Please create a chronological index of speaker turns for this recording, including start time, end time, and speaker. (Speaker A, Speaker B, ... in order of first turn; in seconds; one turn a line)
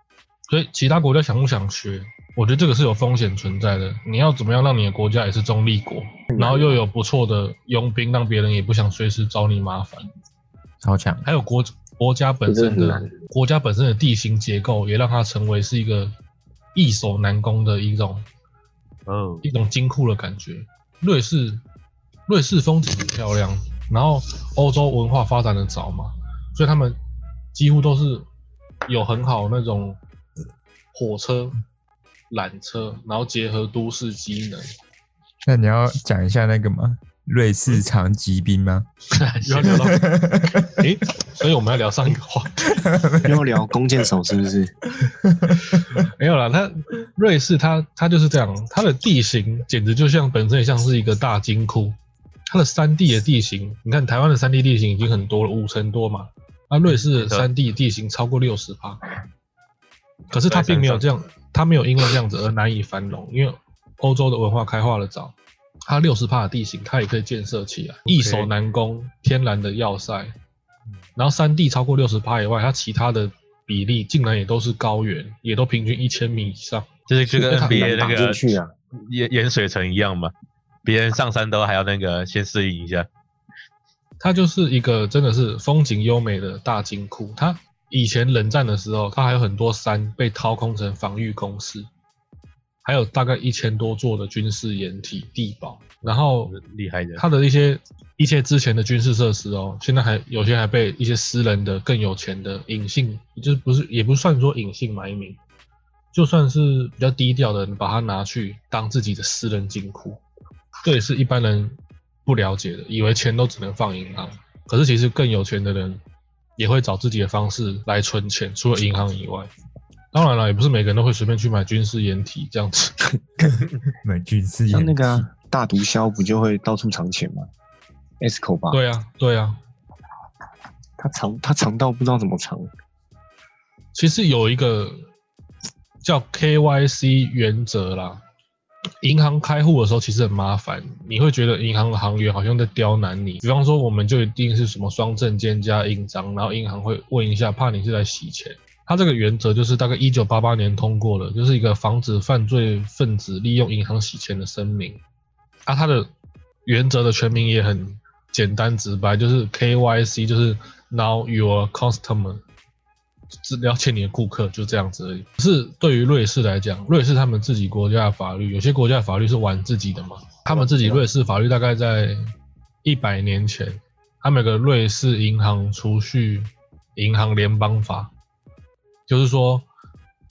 Speaker A: 0.5-10.1
Speaker B: 6.3-6.8
Speaker C: 10.8-11.2
Speaker A: 11.2-16.1
Speaker B: 12.5-13.1
Speaker A: 16.7-18.3
Speaker D: 19.1-19.4
Speaker A: 19.4-21.6
Speaker A: 22.3-27.0
Speaker A: 27.5-28.3
Speaker A: 28.9-30.0
Speaker A: 30.9-31.6
Speaker A: 32.3-34.7
Speaker C: 35.5-38.9
Speaker D: 39.1-39.9
Speaker A: 39.4-40.0
Speaker C: 39.6-40.8
Speaker A: 40.6-42.8
Speaker C: 42.7-43.4
Speaker B: 43.2-44.7
Speaker C: 45.3-46.0
Speaker A: 45.7-52.0
Speaker A: 52.5-59.0
Speaker D: 56.9-57.5
Speaker A: 60.3-65.3
Speaker D: 60.5-61.0
Speaker A: 65.9-70.3
Speaker D: 68.1-68.5
Speaker A: 71.2-77.9
Speaker D: 77.1-80.3
Speaker B: 77.5-78.7
Speaker D: 80.8-83.1
Speaker A: 84.2-91.9
Speaker A: 92.8-96.5
Speaker D: 96.5-97.2
Speaker A: 97.2-105.4
Speaker A: 106.1-110.2
Speaker A: 110.8-116.0
Speaker A: 116.6-119.5
Speaker A: 120.1-123.0
Speaker C: 124.0-125.3
Speaker B: 124.7-127.5
Speaker B: 128.2-128.8
Speaker A: 128.7-129.6
Speaker B: 131.0-132.7
Speaker A: 133.9-135.0
Speaker A: 136.0-138.2
Speaker A: 139.0-155.0
Speaker A: 155.7-156.1
Speaker A: 156.7-162.4
Speaker A: 163.4-172.2
Speaker B: 170.5-171.0
Speaker A: 172.8-178.1
Speaker A: 179.1-179.7